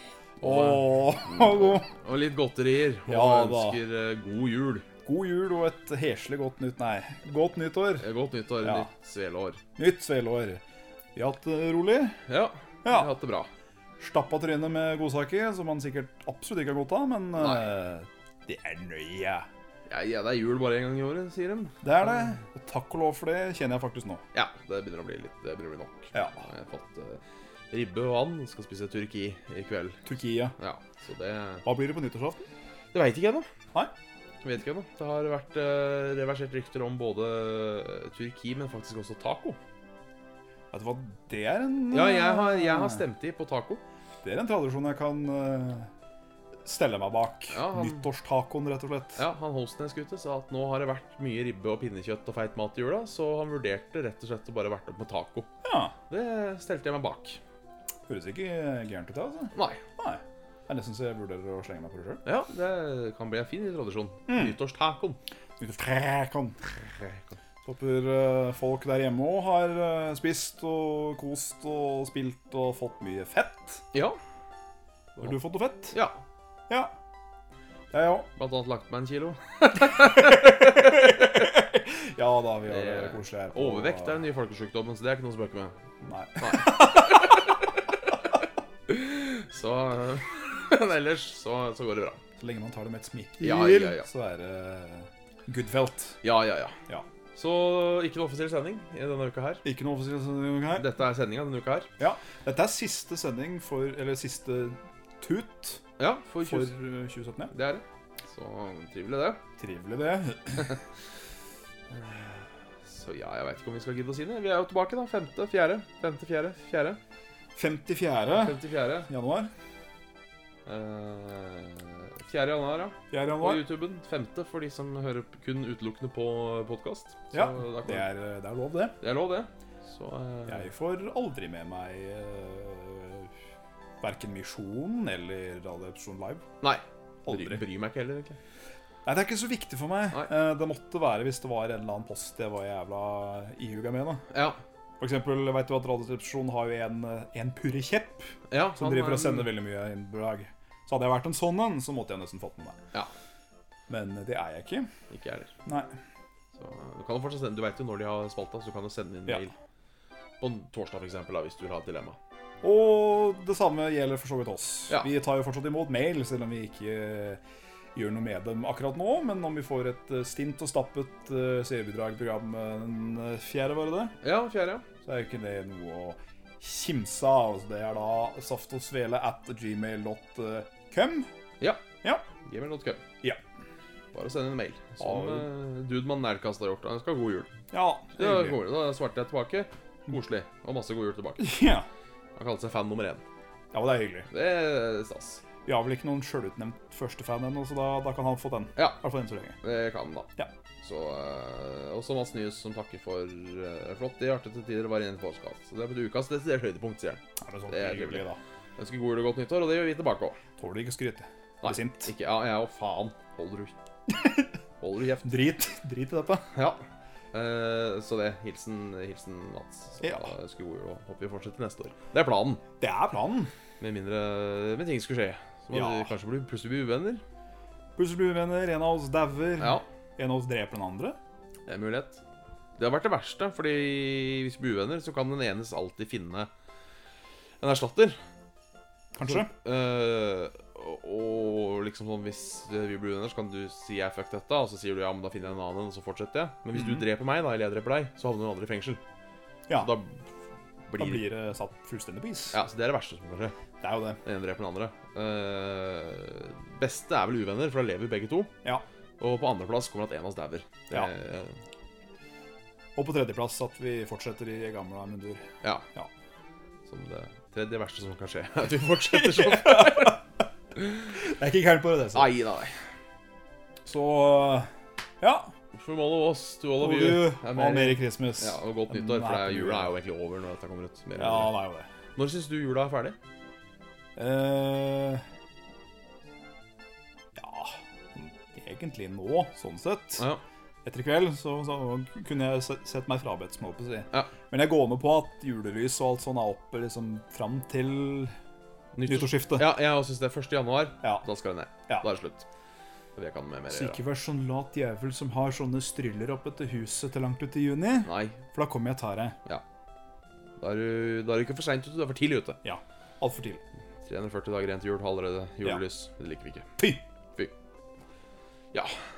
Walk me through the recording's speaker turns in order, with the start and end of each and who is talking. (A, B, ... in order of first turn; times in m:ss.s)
0:00.4-0:01.9 A
0:00.4-0:04.9 B
0:03.0-0:03.8 A
0:05.0-0:08.1 A
0:08.0-0:09.6 B
0:08.6-0:08.9 A
0:09.8-0:10.6 A
0:11.1-0:12.2 A
0:12.3-0:13.5 B
0:12.8-0:13.1 A
0:14.0-0:19.5 A
0:17.4-0:17.8 B
0:19.9-0:22.1 B
0:21.8-0:24.2 A
0:24.3-0:30.0 B
0:26.1-0:26.4 A
0:30.0-0:30.5 A
0:30.6-0:31.6 B
0:31.6-0:32.5 A
0:32.9-0:33.5 B
0:34.4-0:39.6 B
0:40.7-0:43.0 A
0:41.9-0:43.8 B
0:44.2-0:45.9 A
0:46.6-0:49.2 A
0:47.5-0:48.1 B
0:49.2-0:55.5 B
0:55.6-0:55.9 A
0:56.1-0:57.4 B
0:58.1-1:02.2 A
0:59.5-0:59.8 B
1:02.2-1:05.2 B
1:04.3-1:04.6 A
1:05.6-1:06.6 A
1:06.8-1:07.2 B
1:07.6-1:13.8 A
1:15.2-1:16.0 A
1:15.9-1:16.2 B
1:17.9-1:18.3 A
1:18.4-1:21.5 B
1:20.0-1:24.2 A
1:22.7-1:25.7 B
1:26.0-1:27.4 A
1:26.4-1:27.5 B
1:28.9-1:32.2 B
1:32.4-1:36.2 A
1:33.4-1:34.1 B
1:36.2-1:36.7 B
1:37.3-1:39.6 B
1:39.6-1:40.9 A
1:40.7-1:41.9 B
1:42.0-1:45.8 A
1:46.0-1:46.7 B
1:46.4-1:47.5 A
1:47.5-1:49.4 B
1:49.6-1:50.8 A
1:51.9-1:57.0 B
1:57.5-1:59.5 A
1:58.3-1:59.1 B
2:00.6-2:08.1 B
2:03.1-2:03.7 A
2:07.3-2:09.0 A
2:09.0-2:10.7 B
2:10.5-2:13.3 A
2:14.0-2:16.4 A
2:16.6-2:18.4 B
2:17.2-2:17.6 A
2:19.0-2:24.2 A
2:24.3-2:24.6 B
2:25.0-2:32.8 A
2:28.5-2:29.6 B
2:33.9-2:34.9 A
2:35.1-2:35.5 B
2:35.6-2:35.9 A
2:36.6-2:39.5 B
2:40.4-2:42.2 B
2:42.6-2:47.4 A
2:47.9-2:54.2 A
2:54.2-2:54.8 B
2:55.0-3:01.3 A
3:01.6-3:01.8 B
3:02.4-3:03.0 B
3:04.1-3:07.5 B
3:05.0-3:05.5 A
3:07.7-3:08.6 A
3:08.2-3:11.5 B
3:11.4-3:11.9 A
3:12.3-3:13.2 B
3:13.7-3:14.3 A
3:14.3-3:15.4 B
3:15.6-3:19.6 A
3:18.8-3:19.0 B
3:19.6-3:20.3 B
3:20.8-3:28.2 B
3:27.4-3:28.4 A
3:28.8-3:30.4 B
3:30.6-3:32.1 A
3:31.6-3:33.7 B
3:34.1-3:34.4 A
3:34.8-3:35.4 B
3:35.2-3:36.5 A
3:36.5-3:42.6 B
3:40.0-3:40.3 A
3:42.8-3:43.5 A
3:43.8-3:47.2 B
3:45.7-3:46.1 A
3:48.0-3:51.2 A
3:49.6-3:49.8 B
3:51.7-3:52.2 B
3:52.8-3:56.5 B
3:57.6-3:58.2 B
3:59.1-3:59.5 A
3:59.2-4:09.0 B
4:06.7-4:07.0 A
4:09.7-4:09.9 A
4:09.7-4:10.2 B
4:10.9-4:11.3 B
4:11.0-4:12.6 A
4:12.5-4:13.5 B
4:13.8-4:14.2 A
4:14.2-4:18.5 B
4:19.2-4:21.6 B
4:23.0-4:26.1 A
4:26.9-4:30.2 B
4:29.0-4:30.2 A
4:31.1-4:32.3 A
4:32.1-4:32.7 B
4:33.8-4:34.7 A
4:35.2-4:35.5 A
4:35.7-4:41.5 B
4:36.8-4:39.9 A
4:41.2-4:41.9 A
4:42.2-4:43.2 B
4:44.2-4:45.2 A
4:47.3-4:50.2 A
4:50.8-4:58.3 A
4:59.0-5:02.4 B
4:59.0-4:59.8 A
5:03.2-5:04.0 B
5:03.7-5:09.4 A
5:08.0-5:08.4 B
5:10.6-5:12.6 B
5:12.6-5:13.6 A
5:14.0-5:16.7 B